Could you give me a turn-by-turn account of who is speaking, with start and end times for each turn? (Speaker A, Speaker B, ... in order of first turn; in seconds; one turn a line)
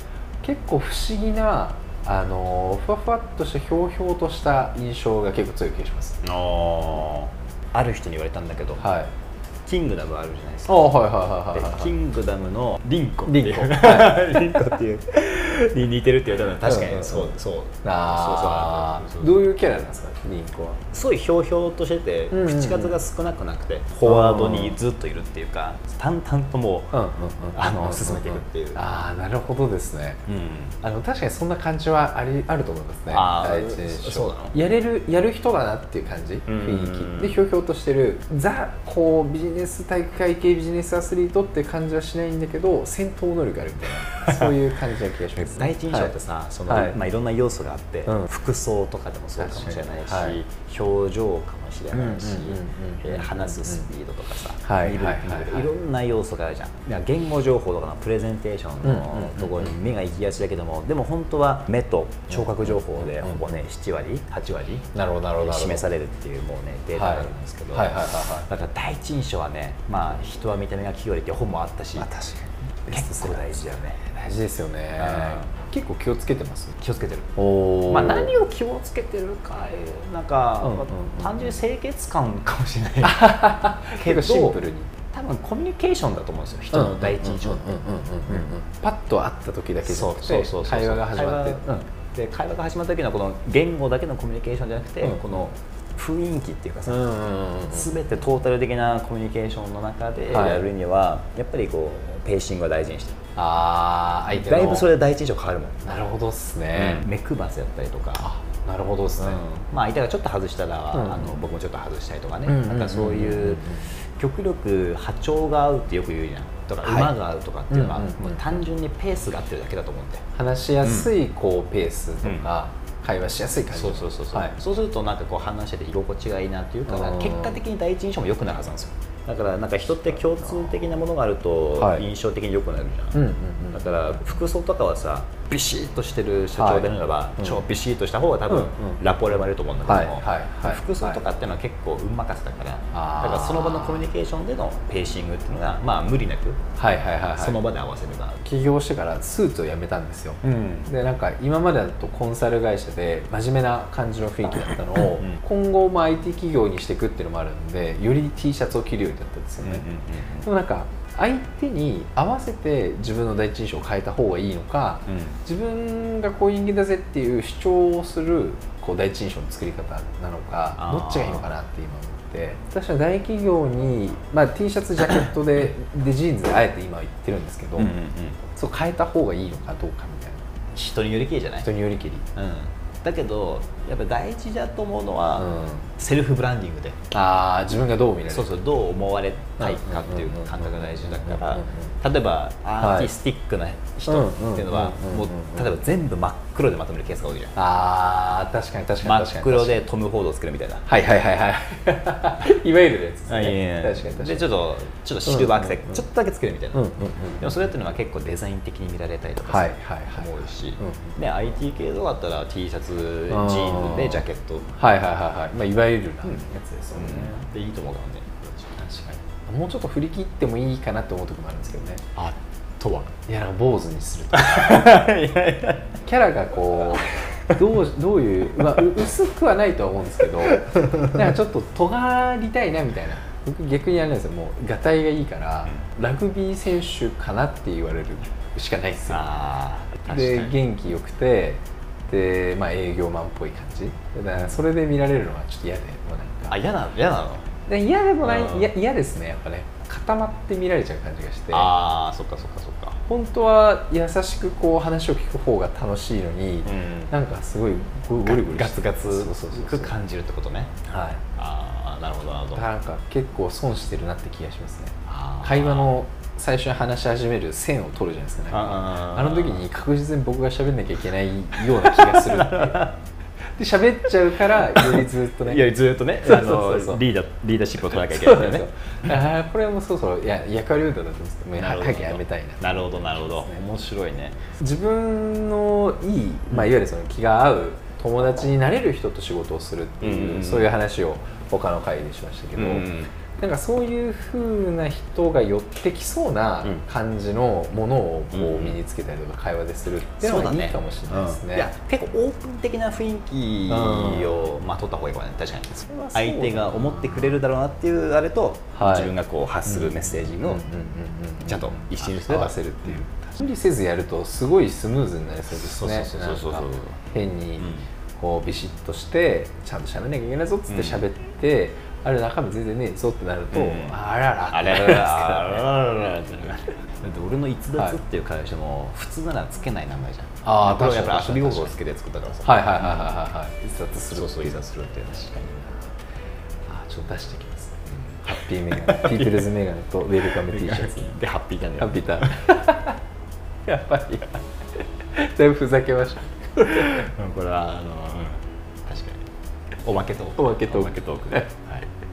Speaker A: 0.4-6.2
Speaker B: 6.2-8.8
Speaker A: 8.8-9.1
Speaker B: 9.7-11.0
Speaker A: 10.7-11.9
Speaker B: 11.5-19.4
Speaker A: 13.3-14.5
Speaker A: 16.6-17.3
Speaker A: 17.8-20.8
Speaker B: 20.9-27.0
Speaker A: 22.3-23.0
Speaker A: 24.0-24.8
Speaker A: 26.9-30.2
Speaker B: 27.5-28.8
Speaker B: 30.3-30.8
Speaker A: 30.8-46.1
Speaker B: 33.1-34.6
Speaker B: 36.5-37.4
Speaker B: 44.2-44.5
Speaker B: 45.4-64.9
Speaker A: 46.7-47.0
Speaker A: 49.4-50.4
Speaker A: 51.9-53.9
Speaker A: 54.6-55.7
Speaker A: 58.8-59.8
Speaker A: 62.3-63.4
Speaker A: 64.9-65.9
Speaker B: 65.4-72.1
Speaker A: 67.0-68.5
Speaker A: 72.0-73.5
Speaker B: 72.9-74.0
Speaker A: 74.1-76.8
Speaker B: 75.0-75.5
Speaker B: 76.8-77.3
Speaker A: 77.4-78.3
Speaker B: 77.9-84.6
Speaker A: 80.6-81.6
Speaker A: 83.0-84.9
Speaker B: 85.1-88.5
Speaker A: 86.7-91.7
Speaker B: 89.9-97.0
Speaker A: 96.9-97.9
Speaker B: 97.7-103.2
Speaker A: 100.3-100.7
Speaker A: 103.4-104.9
Speaker B: 104.3-105.8
Speaker A: 105.8-107.1
Speaker B: 106.7-108.3
Speaker A: 108.2-109.5
Speaker B: 109.2-120.2
Speaker A: 110.9-111.4
Speaker A: 112.5-113.9
Speaker A: 116.8-117.1
Speaker A: 117.7-118.6
Speaker A: 120.3-124.6
Speaker B: 120.8-121.1
Speaker B: 123.7-133.2
Speaker A: 126.9-127.6
Speaker A: 131.8-132.1
Speaker A: 133.1-134.0
Speaker B: 133.7-146.6
Speaker A: 136.6-137.6
Speaker A: 138.5-139.0
Speaker A: 139.8-141.2
Speaker A: 142.9-144.1
Speaker A: 146.8-147.6
Speaker B: 147.3-148.4
Speaker A: 148.4-159.9
Speaker B: 150.4-150.9
Speaker B: 155.0-155.4
Speaker B: 159.6-160.5
Speaker A: 160.4-177.9
Speaker B: 165.1-165.4
Speaker B: 170.8-171.5
Speaker B: 177.8-178.4
Speaker A: 178.5-180.5
Speaker B: 180.7-181.7
Speaker A: 181.6-182.3
Speaker B: 182.3-187.0
Speaker A: 185.4-185.9
Speaker A: 187.1-188.6
Speaker B: 188.3-197.6
Speaker A: 189.6-191.9
Speaker A: 192.8-193.1
Speaker A: 194.1-195.8
Speaker A: 197.6-199.8
Speaker B: 199.0-200.9
Speaker A: 200.9-204.5
Speaker B: 203.3-214.7
Speaker A: 205.3-206.0
Speaker A: 206.7-207.6
Speaker A: 209.5-211.2
Speaker A: 213.3-217.4
Speaker B: 216.2-219.2
Speaker A: 219.5-222.1
Speaker B: 222.2-223.1
Speaker A: 223.3-225.1
Speaker B: 224.3-226.0
Speaker A: 226.0-239.3
Speaker B: 226.6-227.7
Speaker B: 228.5-228.9
Speaker B: 230.4-231.2
Speaker B: 239.1-240.6
Speaker A: 240.1-246.6
Speaker B: 246.5-247.5
Speaker A: 247.7-251.7
Speaker B: 248.2-248.7
Speaker B: 251.5-253.0
Speaker A: 253.1-260.0
Speaker B: 256.6-257.1
Speaker B: 258.2-262.7
Speaker A: 260.9-261.2
Speaker A: 262.6-272.9
Speaker B: 265.1-265.9
Speaker B: 268.5-269.6
Speaker B: 271.6-272.9
Speaker A: 273.6-277.1
Speaker B: 274.7-278.7
Speaker A: 278.0-283.6
Speaker B: 281.6-284.4
Speaker A: 284.6-301.7
Speaker B: 290.0-290.7
Speaker B: 292.6-293.1
Speaker B: 298.3-298.8
Speaker B: 300.2-310.7
Speaker A: 303.7-304.5
Speaker A: 305.7-307.4
Speaker A: 308.7-309.1
Speaker A: 309.7-325.7
Speaker B: 311.4-313.1
Speaker B: 315.5-317.0
Speaker B: 317.6-317.9
Speaker B: 320.7-321.0
Speaker B: 323.5-333.1
Speaker A: 330.4-331.8
Speaker A: 332.4-334.6
Speaker B: 334.1-335.6
Speaker A: 336.7-341.2
Speaker B: 337.9-339.5
Speaker B: 340.2-342.6
Speaker A: 341.8-343.0
Speaker A: 343.7-344.4
Speaker A: 345.1-347.1
Speaker B: 346.7-349.3
Speaker B: 349.8-351.9
Speaker A: 350.4-351.5